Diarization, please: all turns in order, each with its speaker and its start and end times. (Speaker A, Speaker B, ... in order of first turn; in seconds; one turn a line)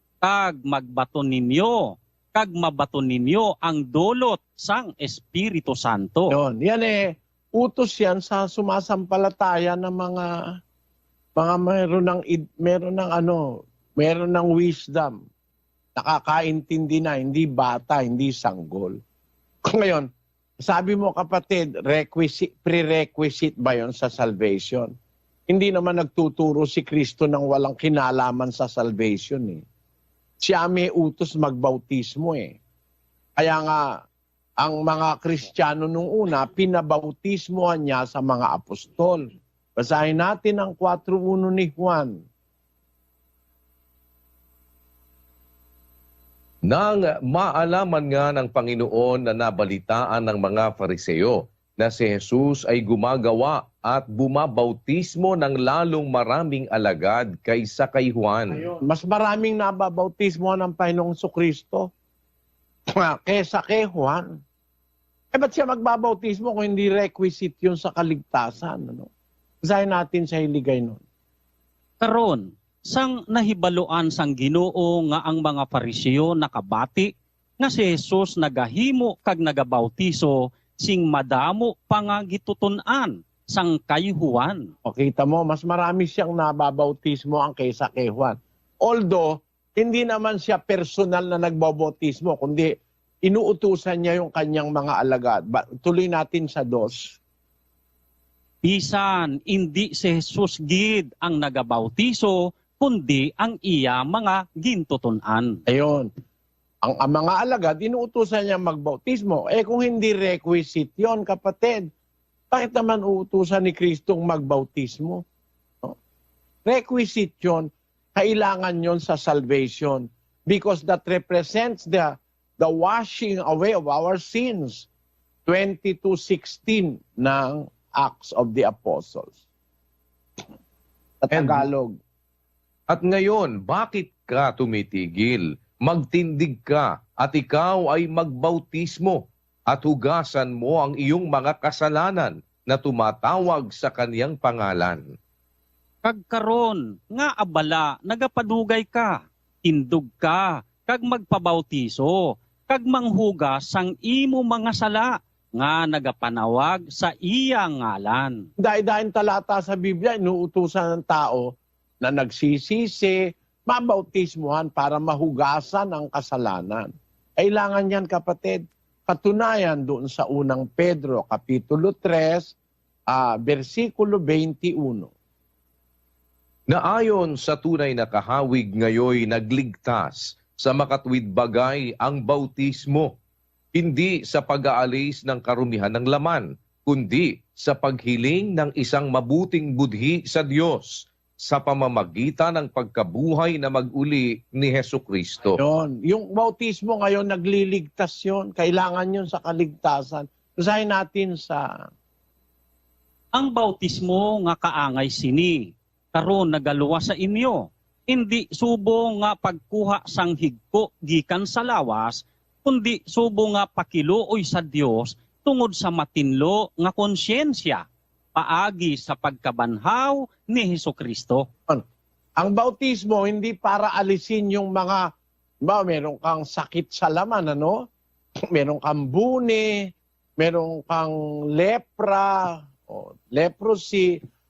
Speaker A: 0.2-6.3
Speaker B: 6.3-10.3
Speaker B: 11.4-13.4
Speaker B: 14.0-15.2
Speaker B: 16.0-19.0
Speaker B: 19.7-20.1
Speaker B: 20.6-24.9
Speaker B: 25.5-29.6
Speaker B: 30.4-32.5
Speaker B: 33.4-33.9
Speaker B: 34.6-39.2
Speaker B: 39.8-42.1
Speaker C: 46.7-58.7
Speaker B: 58.8-61.9
Speaker B: 63.0-64.2
Speaker B: 65.3-69.1
Speaker B: 69.6-71.0
Speaker A: 72.0-84.7
Speaker B: 84.8-92.7
Speaker B: 93.2-97.2
Speaker A: 98.6-105.6
Speaker B: 105.7-106.1
Speaker B: 106.8-111.8
Speaker B: 112.5-115.2
Speaker B: 116.7-124.9
Speaker B: 125.5-129.4
Speaker B: 131.2-131.9
Speaker C: 131.3-131.7
Speaker C: 132.9-145.0
Speaker A: 146.0-158.5
Speaker B: 158.6-161.5
Speaker B: 162.0-166.9
Speaker B: 167.4-172.6
Speaker B: 173.1-175.1
Speaker C: 176.7-183.2
Speaker C: 183.7-195.6
Speaker B: 195.5-201.7
Speaker A: 203.3-221.5
Speaker B: 222.4-225.1
Speaker B: 225.6-227.8
Speaker B: 228.5-229.8
Speaker B: 230.4-234.1